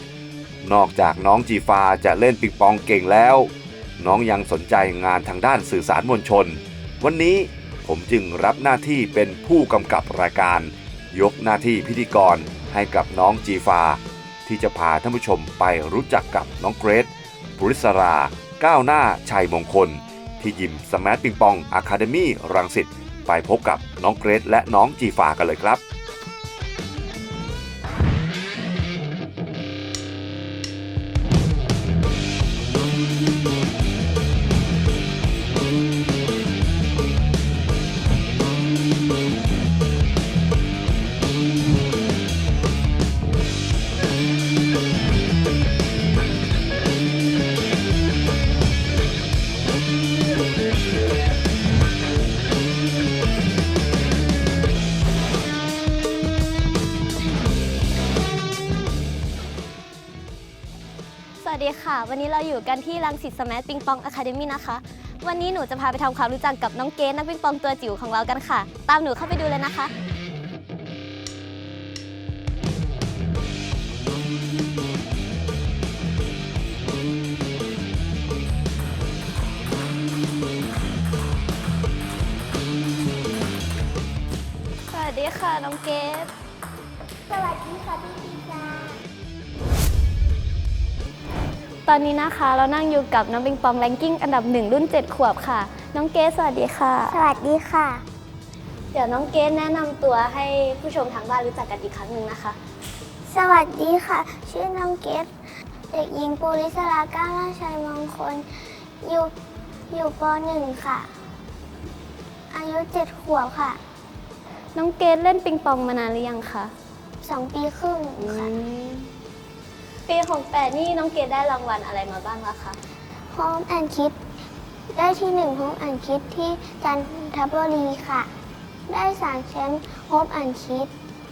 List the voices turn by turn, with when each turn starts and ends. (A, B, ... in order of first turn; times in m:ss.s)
0:00.6-0:25.8 A
1:01.4-1:09.9 B
1:24.9-1:26.3 B
1:27.3-1:29.0 C
1:31.9-1:37.2 B
1:37.1-1:38.0 C
1:38.9-1:42.6 B
1:43.3-1:45.3 C
1:45.9-1:49.3 C
1:49.9-1:51.1 C
1:52.5-1:53.8 C
1:54.8-1:56.7 B
1:57.2-1:58.5 C
1:58.2-1:59.1 B
2:00.1-2:02.8 B
2:03.3-2:04.2 C
2:04.9-2:08.3 C
2:08.9-2:10.9 C